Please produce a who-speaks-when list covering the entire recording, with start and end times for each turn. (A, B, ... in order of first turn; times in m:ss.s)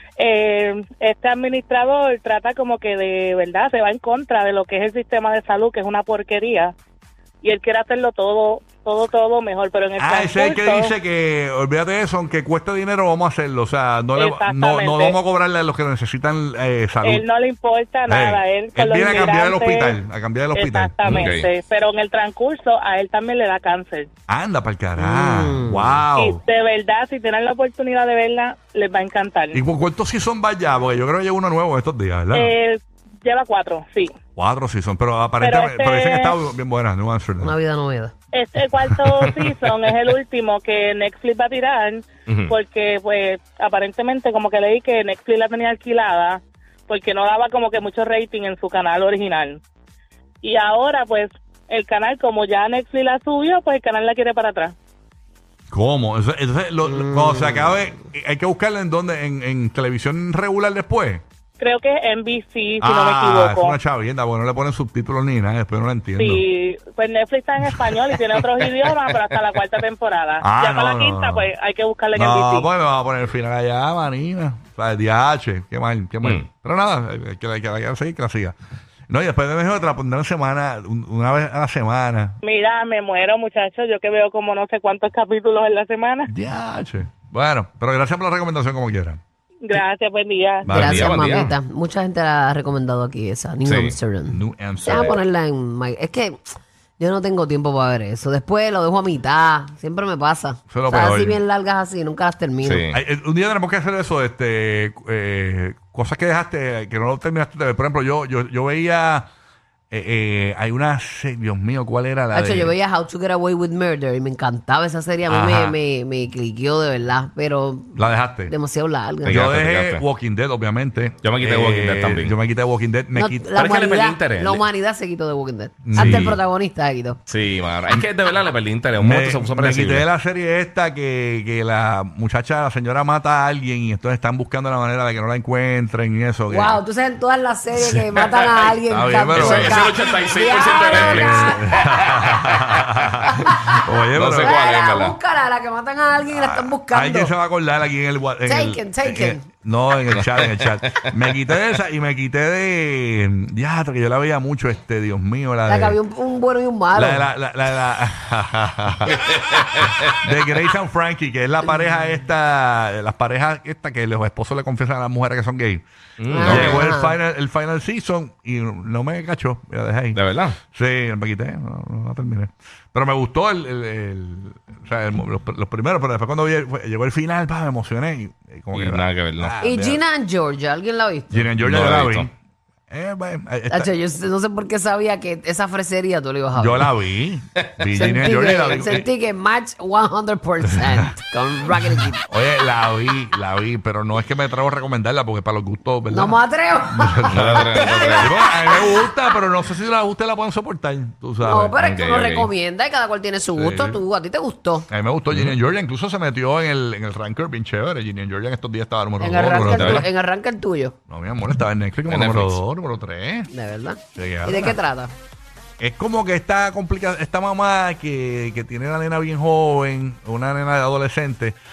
0:00.2-0:06.7 A
0:07.4-0:10.9 A
0:10.0-0:17.2 B
0:14.2-0:15.2 A
0:17.0-0:20.0 A
0:18.1-0:21.0 B
0:20.5-0:24.1 A
0:21.0-0:21.5 C
0:24.3-0:26.4 B
0:25.0-0:26.0 D
0:26.2-0:29.6 A
0:29.5-0:32.5 B
0:32.3-0:34.1 A
0:34.4-0:37.6 B
0:35.4-0:36.3 A
0:37.4-0:38.1 D
0:38.3-0:49.6 A
0:39.2-0:39.5 B
0:50.4-0:54.8 A
0:55.7-1:01.2 B
0:56.8-0:57.9 D
1:01.6-1:03.8 A
1:02.8-1:06.4 B
1:06.2-1:12.7 A
1:10.4-1:11.5 B
1:12.2-1:18.6 B
1:19.1-1:22.4 B
1:22.4-1:26.3 A
1:26.3-1:29.2 B
1:29.7-1:30.7 A
1:30.6-1:31.5 B
1:30.7-1:42.9 D
1:30.7-1:31.5 C
1:33.6-1:34.0 C
1:34.3-1:35.2 B
1:40.7-1:41.4 B
1:42.6-1:43.0 C
1:42.9-1:49.3 B
1:49.9-1:52.7 B
1:52.3-1:59.4 D
1:55.3-1:55.8 B
1:58.0-1:58.5 B
1:59.2-2:00.0 C
1:59.2-2:03.5 B
2:01.2-2:02.3 C
2:03.1-2:07.2 D
2:03.5-2:04.6 C
2:05.8-2:06.4 B
2:05.9-2:06.4 C
2:07.3-2:10.1 C
2:09.0-2:16.8 B
2:16.5-2:21.8 D
2:17.8-2:18.2 B
2:18.9-2:19.9 B
2:19.3-2:22.8 C
2:20.9-2:24.6 B
2:23.3-2:27.3 D
2:24.1-2:25.2 C
2:26.3-2:36.0 B
2:28.4-2:29.4 D
2:30.2-2:31.0 C
2:35.7-2:37.3 D
2:37.0-2:39.3 B
2:39.1-2:40.0 C
2:40.0-2:45.8 B
2:46.2-2:46.8 C
2:46.3-2:47.2 D
2:46.4-2:50.2 B
2:50.2-2:50.6 C
2:50.7-3:00.0 B
2:58.7-2:59.5 C
2:59.6-3:01.5 D
3:01.3-3:02.3 B
3:01.6-3:02.3 C
3:02.9-3:03.9 B
3:03.7-3:06.9 D
3:06.6-3:09.1 B
3:08.0-3:12.2 D
3:11.8-3:21.8 B
3:16.1-3:19.1 D
3:17.3-3:18.3 C
3:21.4-3:24.9 D
3:21.8-3:22.5 C
3:23.6-3:24.0 B
3:24.9-3:30.1 B
3:29.2-3:31.0 D
3:29.7-3:30.1 C
3:31.1-3:33.5 B
3:32.1-3:32.6 C
3:33.5-3:35.1 D
3:34.2-3:34.8 B
3:35.8-3:41.6 B